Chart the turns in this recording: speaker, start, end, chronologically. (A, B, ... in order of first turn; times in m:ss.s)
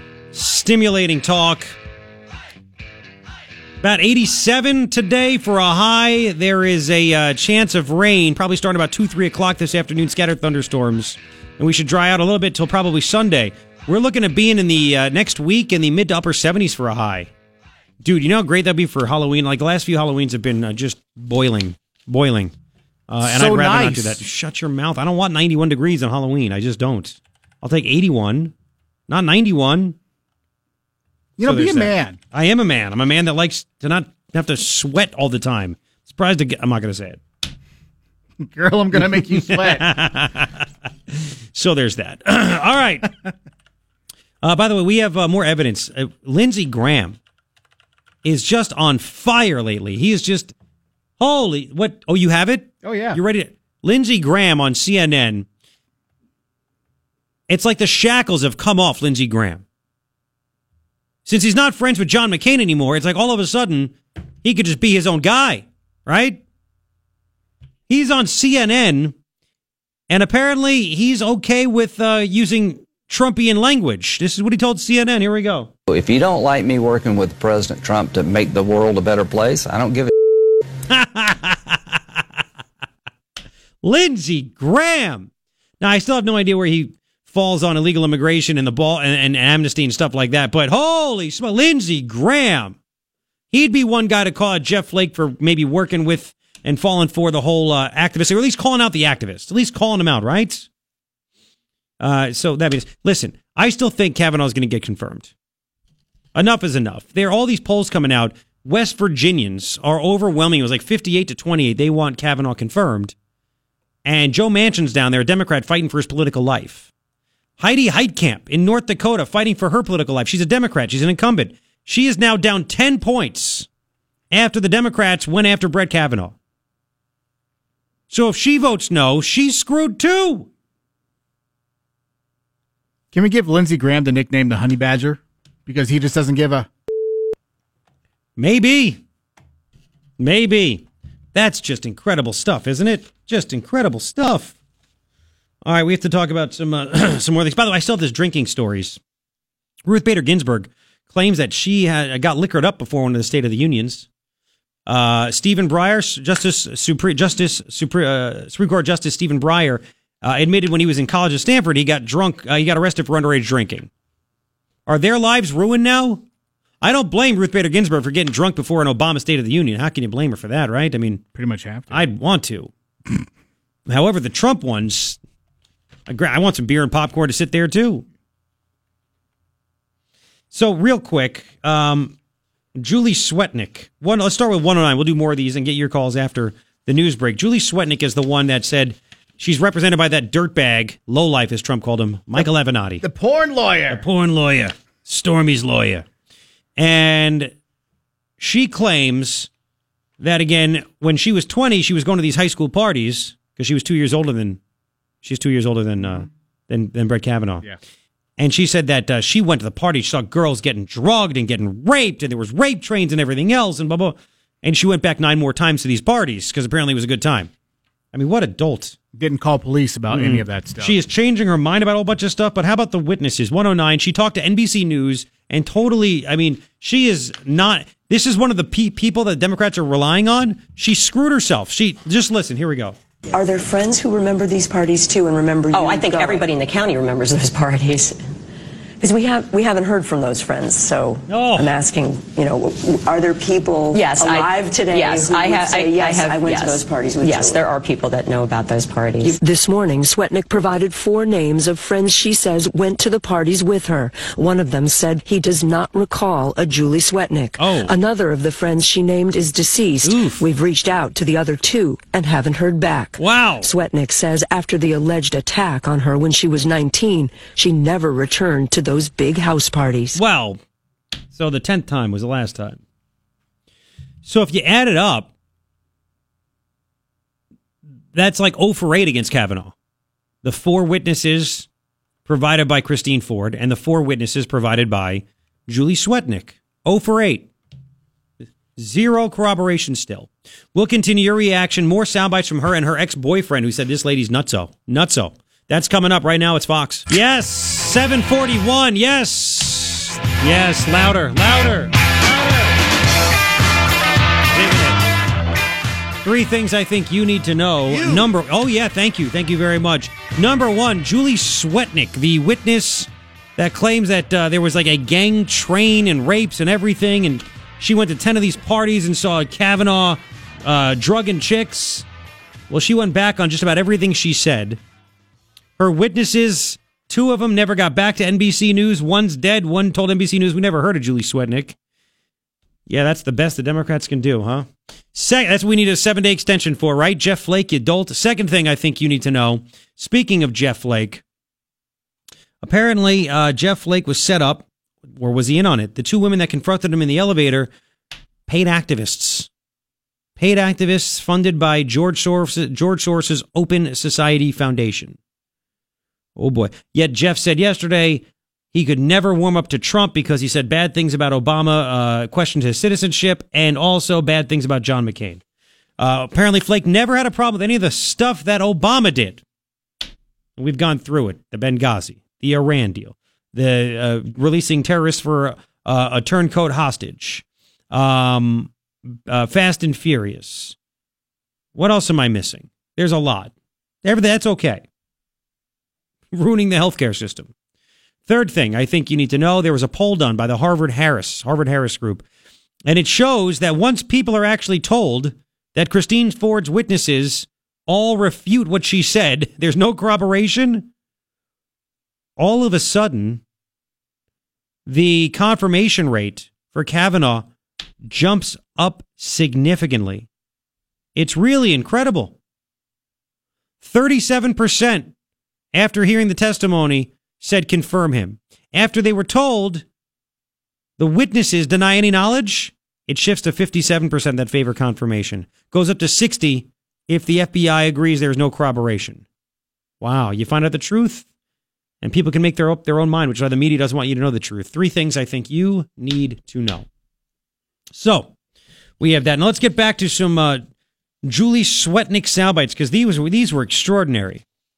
0:00.3-0:01.8 A
0:03.8-0:17.3 A
0:18.0-0:22.5 A
0:23.1-0:28.5 A
0:23.2-0:24.2 B
0:29.1-0:30.0 A
0:31.4-0:32.2 B
0:31.4-0:37.2 A
0:38.4-0:39.8 B
0:39.0-0:40.6 A
0:41.5-0:43.2 A
0:44.4-0:47.2 A
0:48.2-0:50.5 A
0:51.2-0:55.5 A
0:52.8-0:53.2 B
0:57.5-0:59.6 A
1:01.2-1:06.4 A
1:07.9-1:09.1 A
1:10.1-1:15.7 A
1:15.9-1:20.1 C
1:20.9-1:22.0 A
1:23.8-1:25.3 A
1:25.8-1:32.8 A
1:33.5-1:40.7 A
1:42.0-1:45.3 A
1:46.3-1:53.1 A
1:54.0-1:56.9 A
1:57.6-2:03.7 A
2:04.3-2:06.4 A
2:08.1-2:10.5 A
2:13.1-2:16.7 B
2:18.4-2:19.0 A
2:20.2-2:24.5 A
2:25.6-2:29.0 A
2:29.8-2:34.1 A
2:34.8-2:43.9 A
2:44.9-2:46.2 A
2:46.8-2:51.2 A
2:51.3-2:52.1 B
2:51.9-2:52.7 A
2:53.9-2:55.2 A
2:56.1-2:58.0 A
3:00.5-3:02.1 A
3:02.8-3:13.0 A
3:13.0-3:14.0 B
3:13.9-3:16.0 A
3:16.8-3:17.5 A
3:18.4-3:19.5 A
3:20.2-3:24.6 A
3:25.2-3:27.6 A
3:28.4-3:37.5 A
3:38.1-3:39.0 A
3:39.1-3:41.0 B
3:40.1-3:53.0 A
3:53.3-3:56.5 D
3:55.7-3:58.2 E
3:59.0-4:07.6 D
4:01.3-4:01.7 A
4:03.9-4:09.4 E
4:09.2-4:30.2 F
4:17.6-4:17.9 A
4:20.0-4:20.4 A
4:23.2-4:23.7 A
4:30.1-4:30.6 A
4:31.3-4:32.8 A
4:34.2-4:35.3 A
4:38.1-4:39.7 A
4:40.4-4:41.7 A
4:42.2-4:47.5 A
4:48.8-5:02.6 A
5:04.5-5:05.0 A
5:06.2-5:22.0 A
5:22.7-5:24.8 A
5:25.8-5:31.8 A
5:32.9-5:41.2 A
5:42.6-5:47.7 A
5:48.5-5:49.5 A
5:50.4-5:55.2 A
5:56.4-6:05.4 A
6:06.0-6:09.4 A
6:10.6-6:20.7 A
6:21.7-6:23.5 A
6:24.0-6:24.8 A
6:26.3-6:27.5 A
6:28.3-6:32.2 A
6:32.8-6:40.9 A
6:42.4-6:43.4 A
6:44.8-6:47.5 A
6:48.0-6:50.3 A
6:51.1-6:52.4 A
6:53.8-6:55.1 A
6:55.7-6:59.8 A
7:01.0-7:09.2 A
7:10.0-7:11.3 A
7:12.0-7:16.9 A
7:17.9-7:18.3 A
7:19.0-7:20.6 A
7:21.2-7:24.4 A